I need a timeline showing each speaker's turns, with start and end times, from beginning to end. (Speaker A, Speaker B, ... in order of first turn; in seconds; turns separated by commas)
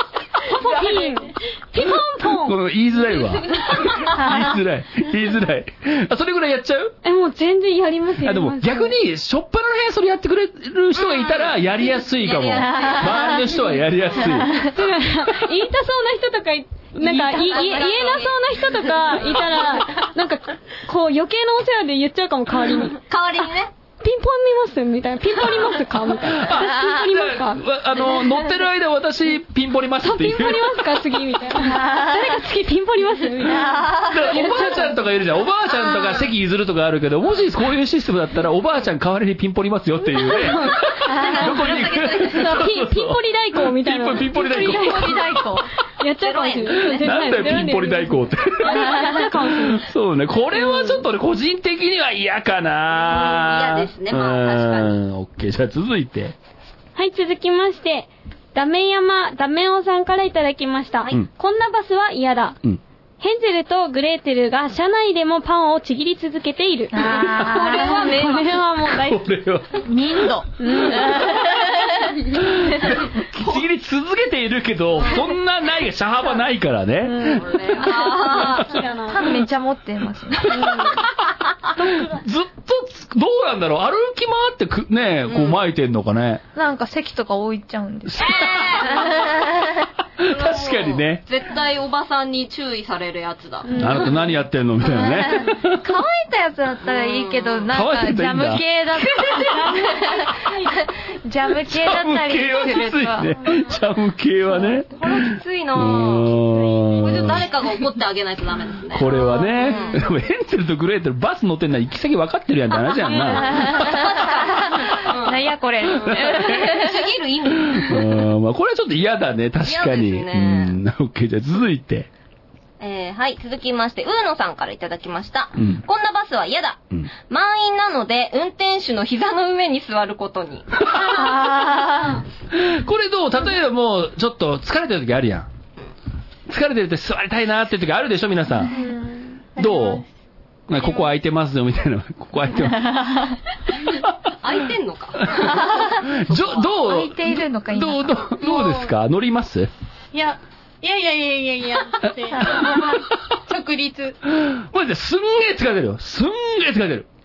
Speaker A: 0.4-2.6, Speaker B: 1.8-6.9, Speaker C: 4.1-4.6, Speaker A: 7.0-8.9, Speaker B: 8.2-14.6, Speaker D: 10.9-13.5, Speaker C: 12.5-13.5, Speaker D: 14.0-14.3, Speaker C: 14.2-14.7, Speaker A: 14.7-23.0, Speaker C: 17.0-17.9, Speaker D: 17.4-19.7, Speaker D: 23.1-23.7, Speaker A: 24.0-28.5, Speaker B: 26.2-30.9, Speaker A: 30.0-35.0, Speaker C: 31.6-32.4, Speaker C: 33.4-34.3, Speaker B: 34.0-45.3, Speaker D: 35.8-36.3, Speaker A: 40.4-40.7, Speaker D: 40.7-42.6, Speaker C: 41.1-41.5, Speaker A: 42.3-49.9, Speaker C: 44.4-45.7, Speaker D: 46.2-47.1, Speaker B: 46.7-56.3, Speaker C: 48.7-49.3, Speaker A: 50.5-51.0, Speaker D: 53.0-54.9, Speaker A: 57.0-62.6, Speaker A: 63.2-69.2, Speaker C: 66.9-68.1, Speaker D: 67.1-68.6, Speaker B: 68.9-70.3, Speaker C: 69.8-72.3, Speaker A: 70.6-71.2, Speaker B: 72.3-77.5, Speaker A: 77.1-79.3, Speaker D: 77.2-78.7, Speaker C: 79.1-80.9, Speaker A: 80.5-81.0, Speaker B: 80.5-81.0, Speaker B: 81.8-86.4, Speaker A: 81.8-82.2, Speaker C: 86.5-89.9, Speaker B: 88.1-88.9, Speaker D: 88.2-89.4, Speaker B: 90.2-91.2, Speaker D: 90.3-94.0, Speaker A: 93.7-94.3, Speaker B: 93.7-95.8, Speaker C: 94.8-103.3, Speaker D: 96.8-97.7, Speaker B: 97.7-99.6, Speaker A: 99.3-100.9, Speaker B: 101.6-107.4, Speaker D: 105.0-106.3, Speaker E: 106.5-107.0, Speaker D: 107.0-110.0, Speaker B: 108.9-114.0, Speaker C: 109.2-109.6, Speaker D: 113.0-118.2, Speaker C: 113.4-117.1, Speaker B: 116.1-116.5, Speaker B: 117.7-122.1, Speaker D: 119.6-120.8, Speaker D: 122.8-131.0, Speaker B: 125.6-125.8, Speaker B: 130.9-131.8, Speaker C: 131.3-132.1, Speaker B: 132.5-135.5, Speaker B: 136.5-138.7, Speaker E: 138.7-140.1, Speaker B: 139.6-140.0, Speaker B: 140.7-142.9, Speaker E: 140.8-141.1, Speaker C: 142.7-143.4, Speaker D: 144.4-146.7, Speaker B: 145.2-149.7, Speaker C: 145.5-146.0, Speaker C: 146.8-148.3, Speaker E: 148.4-148.9, Speaker E: 150.1-154.2, Speaker B: 152.4-153.0, Speaker B: 154.3-157.1